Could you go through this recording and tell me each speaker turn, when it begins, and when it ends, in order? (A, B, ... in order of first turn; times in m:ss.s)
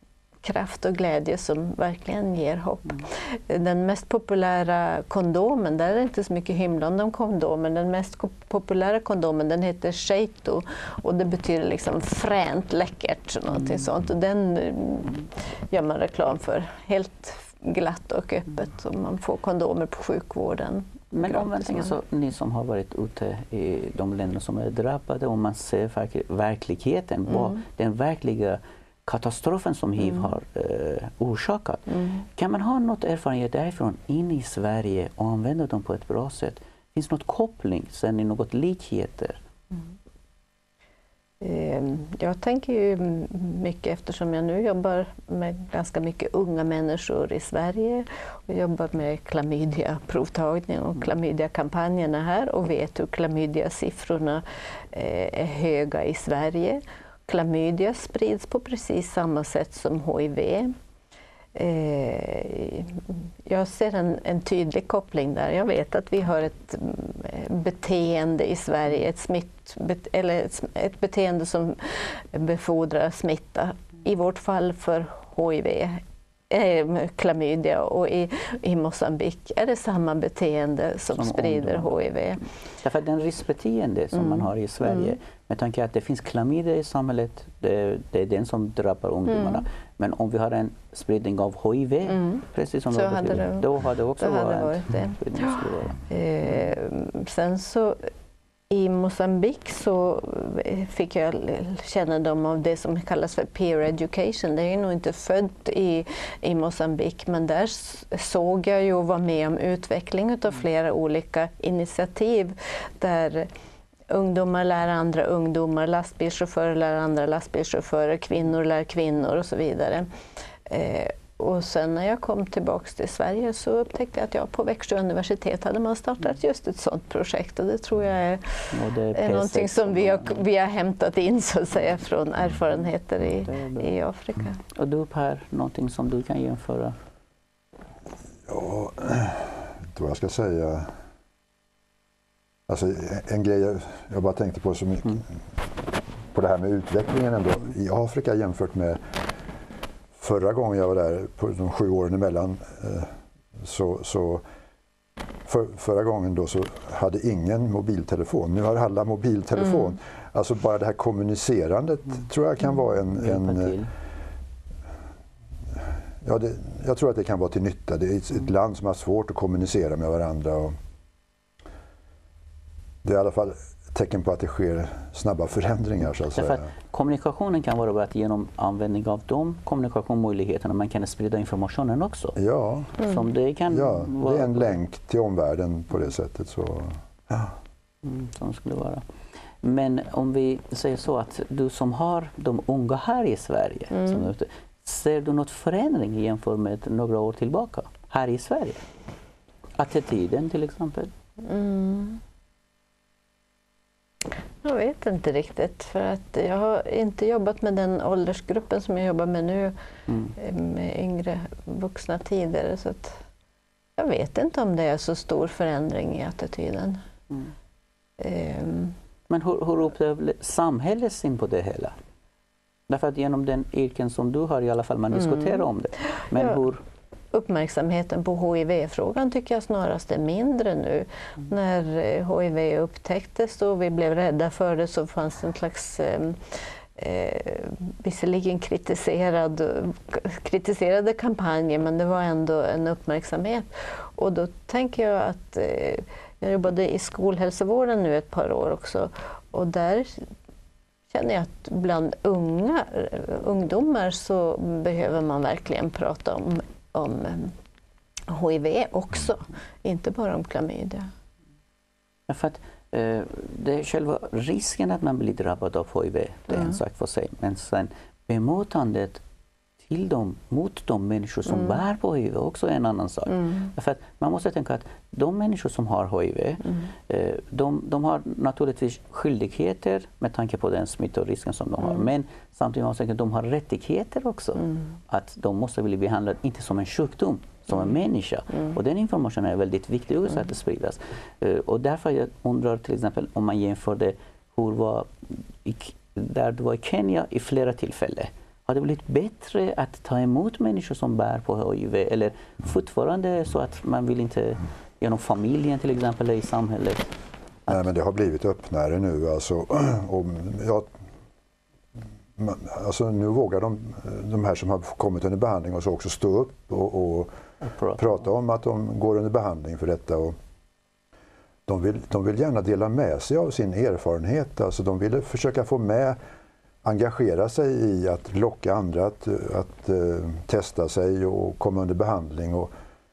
0:00.4-0:21.9 A
0:21.1-0:39.4 B
0:27.3-0:27.6 A
0:41.4-1:00.7 A
1:01.5-1:22.4 A
1:21.1-1:21.9 B
1:22.8-1:36.0 B
1:24.2-1:25.1 A
1:29.3-1:29.6 A
1:32.1-1:38.1 A
1:38.7-1:53.5 A
1:54.1-2:00.1 A
2:00.7-2:14.6 A
2:08.7-2:10.4 B
2:13.4-2:13.9 B
2:14.7-2:17.0 B
2:18.5-2:20.9 C
2:22.7-2:25.4 C
2:26.3-2:29.2 C
2:30.2-2:34.4 C
2:35.4-2:43.8 C
2:43.1-2:43.9 B
2:46.2-2:50.7 C
2:53.0-2:56.7 C
2:56.4-3:02.4 B
3:02.4-3:03.1 C
3:03.0-3:04.8 B
3:03.7-3:07.5 C
3:08.0-3:09.0 B
3:09.6-3:18.8 B
3:13.9-3:14.2 A
3:19.8-3:21.1 B
3:21.4-3:22.2 A
3:24.6-3:29.7 A
3:30.3-3:33.2 A
3:34.0-3:37.0 A
3:38.2-3:39.0 A
3:39.3-3:41.9 B
3:42.9-3:46.8 B
3:45.2-3:45.6 A
3:47.3-4:10.3 A
4:11.1-4:17.5 A
4:18.3-4:21.1 A
4:22.3-4:29.2 B
4:29.8-5:07.1 B
5:07.7-5:10.9 C
5:12.4-5:17.3 C
5:17.6-5:18.0 B
5:18.0-5:20.3 C
5:21.7-5:26.2 C
5:26.8-5:32.7 C